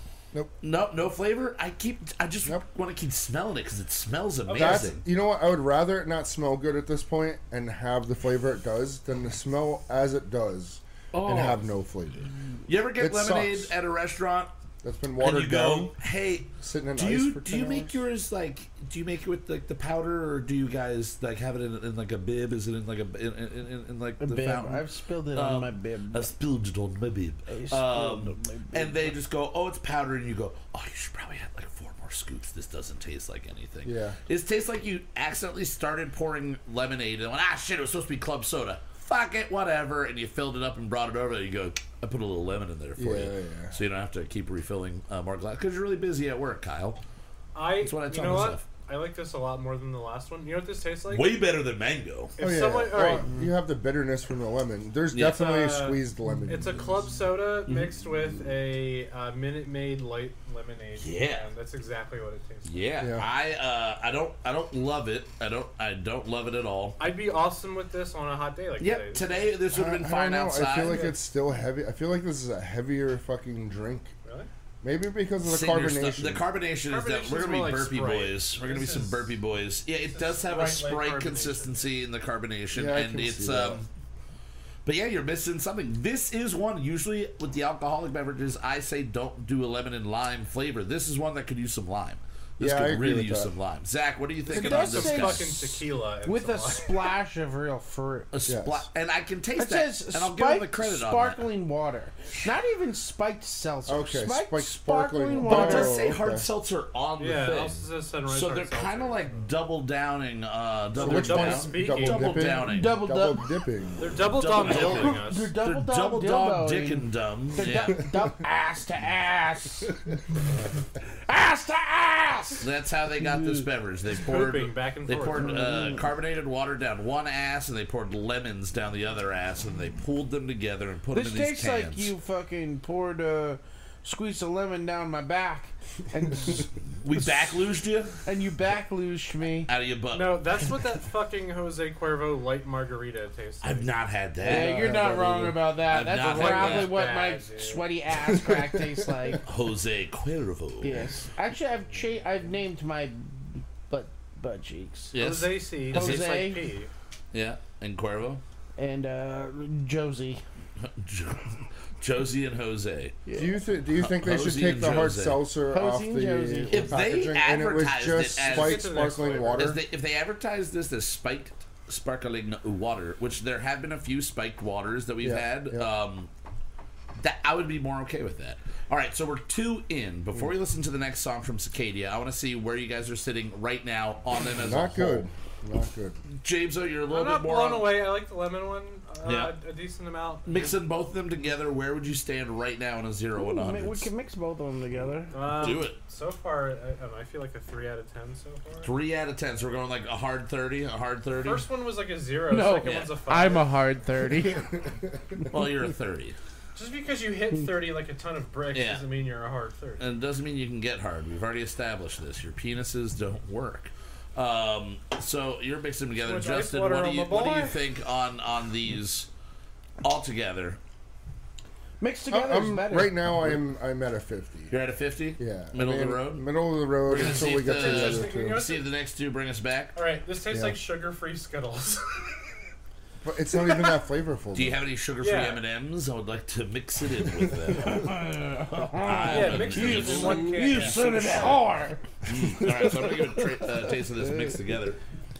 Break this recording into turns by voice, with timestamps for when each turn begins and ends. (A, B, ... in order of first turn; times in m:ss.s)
0:00.6-0:05.0 A
0:04.4-0:04.9 B
0:04.5-0:12.3 C
0:11.1-0:11.6 A
0:12.7-0:14.5 A
0:13.0-0:13.7 C
0:14.8-0:15.9 C
0:15.2-0:47.0 A
0:16.6-0:18.0 C
0:24.2-0:26.2 D
0:27.5-0:28.9 D
0:33.8-0:34.2 C
0:43.0-0:43.8 C
0:47.5-0:51.3 B
0:47.8-0:48.6 A
0:51.1-0:52.3 A
0:52.4-0:53.2 B
0:52.4-0:57.1 C
0:55.1-0:55.4 A
0:55.2-1:02.8 B
0:57.7-0:57.9 A
1:01.0-1:01.5 A
1:02.6-1:07.0 A
1:03.0-1:03.3 C
1:07.0-1:09.5 B
1:08.8-1:11.1 A
1:09.7-1:14.1 C
1:10.8-1:11.2 B
1:14.8-1:16.4 C
1:15.4-1:23.8 A
1:16.9-1:19.3 B
1:20.1-1:21.9 B
1:22.7-1:23.8 C
1:24.8-1:35.6 A
1:32.6-1:33.5 C
1:34.5-1:37.1 B
1:34.5-1:35.4 D
1:36.3-1:38.3 D
1:38.3-1:41.5 A
1:38.4-1:38.8 C
1:39.6-1:46.0 D
1:43.8-1:46.5 C
1:45.3-1:53.0 A
1:47.2-1:49.5 B
1:50.9-1:55.1 C
1:51.0-1:52.5 B
1:52.7-1:53.4 D
1:54.0-1:55.6 B
1:54.3-1:58.0 A
1:55.2-1:57.0 D
1:57.6-1:59.8 D
2:01.3-2:02.6 D
2:02.6-2:12.1 A
2:03.3-2:03.6 D
2:04.2-2:05.8 B
2:11.1-2:16.6 D
2:17.0-2:18.2 A
2:18.2-2:19.7 D
2:19.6-2:20.7 A
2:20.1-2:23.9 B
2:23.6-2:25.0 A
2:24.4-2:25.6 C
2:24.5-2:29.4 D
2:25.8-2:27.0 A
2:26.3-2:27.9 B
2:28.2-2:29.4 C
2:29.4-2:31.1 A
2:30.8-2:35.1 D
2:35.1-2:36.6 A
2:35.2-2:36.9 B
2:35.9-2:36.6 D
2:37.3-2:38.4 A
2:38.8-2:40.4 D
2:40.8-2:43.3 A
2:43.4-2:49.8 C
2:44.0-2:45.4 A
2:45.7-2:46.8 D
2:46.7-2:56.3 A
2:48.4-2:49.8 B
2:55.2-2:55.9 C
2:57.2-3:05.3 A
3:04.5-3:06.2 C
3:06.4-3:08.0 A
3:07.1-3:10.8 B
3:09.2-3:09.5 A
3:10.4-3:14.1 A
3:13.4-3:15.4 D
3:15.3-3:18.9 B
3:15.5-3:16.0 A
3:18.8-3:21.7 A
3:21.4-3:23.8 B
3:22.5-3:24.6 D
3:22.8-3:23.2 A
3:24.3-3:25.4 C
3:25.5-3:26.4 A
3:26.7-3:30.0 B
3:28.7-3:29.0 A
3:30.0-3:39.3 A
3:36.2-3:37.8 B
3:40.0-3:40.8 A
3:42.0-3:43.2 D
3:42.3-3:44.7 C
3:44.7-3:46.5 A
3:45.4-3:48.6 C
3:47.0-3:50.0 A
3:47.2-3:48.8 B
3:49.9-3:52.2 B
3:50.5-3:50.8 C
3:53.2-3:54.8 C
3:54.5-3:58.1 A
3:55.2-3:55.6 B
3:57.9-4:02.0 D
3:58.8-4:05.0 A
3:59.2-4:01.0 B
4:02.6-4:02.9 D
4:04.2-4:04.5 D